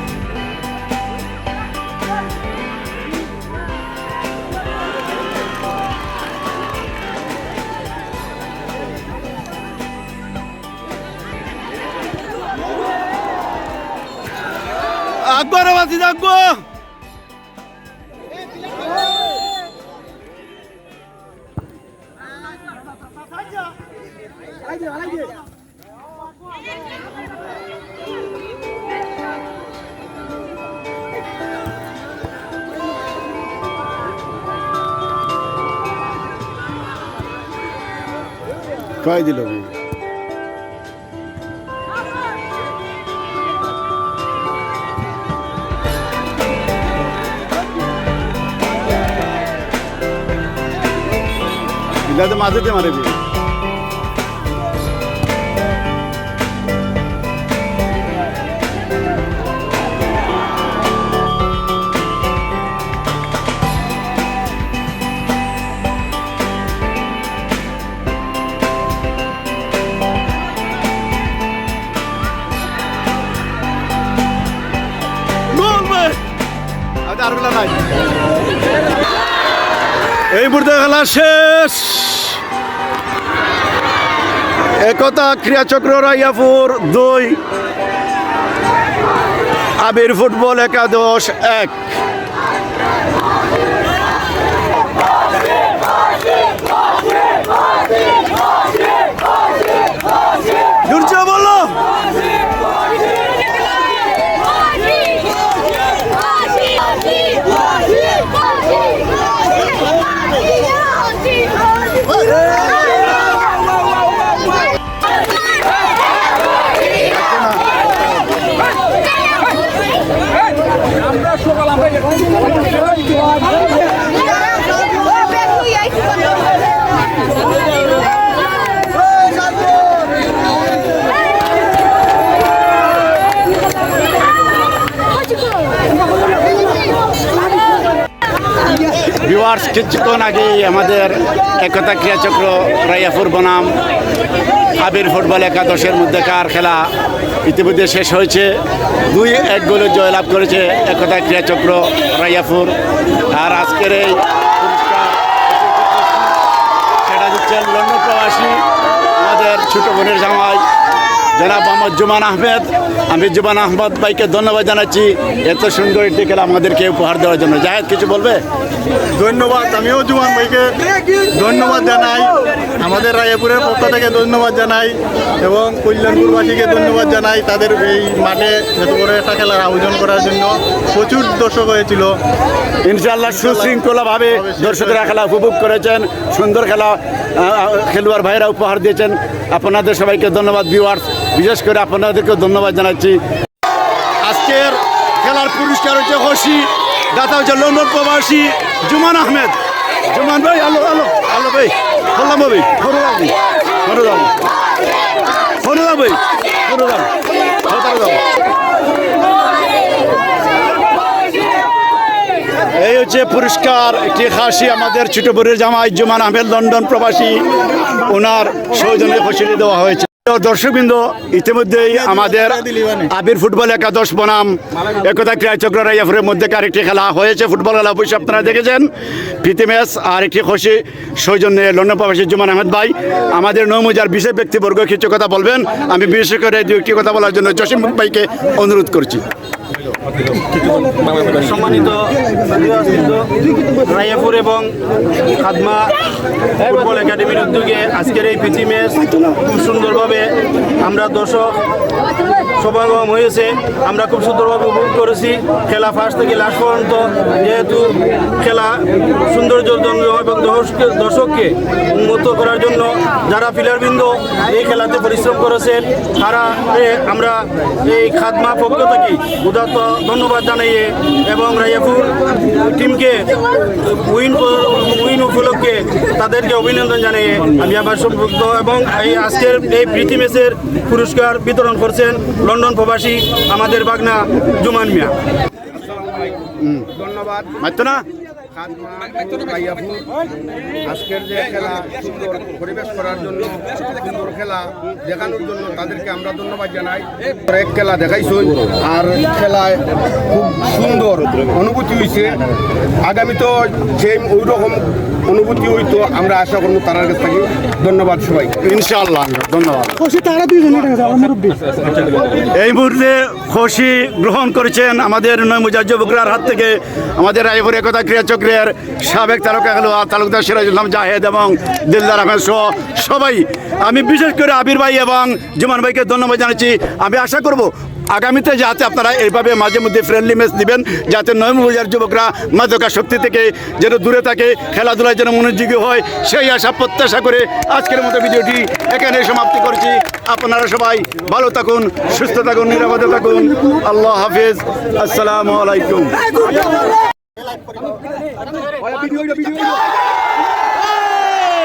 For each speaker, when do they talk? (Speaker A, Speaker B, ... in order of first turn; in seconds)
Speaker A: 15.2-16.6, 39.0-39.7, 52.1-53.2, 75.5-76.2, 77.0-77.9, 80.3-82.4, 84.8-87.4, 89.8-91.9, 100.8-101.8, 117.0-117.6, 139.1-143.8, 144.8-146.9, 147.4-152.7, 153.3-156.3, 157.0-160.6, 161.3-168.4, 182.8-193.2, 194.2-204.3, 205.6-207.1, 207.6-208.2, 212.7-239.2, 286.6-286.9, 287.6-288.0, 308.6-310.2, 312.4-346.2
Speaker B: 169.1-182.2, 183.3-183.7, 184.3-185.1, 222.2-223.0, 310.5-311.5
Speaker C: 241.1-244.8, 245.3-246.0, 246.6-251.6, 252.6-285.1
Speaker D: 285.7-286.4, 286.9-287.5, 288.5-290.1, 290.9-302.4, 303.0-308.6, 349.1-349.4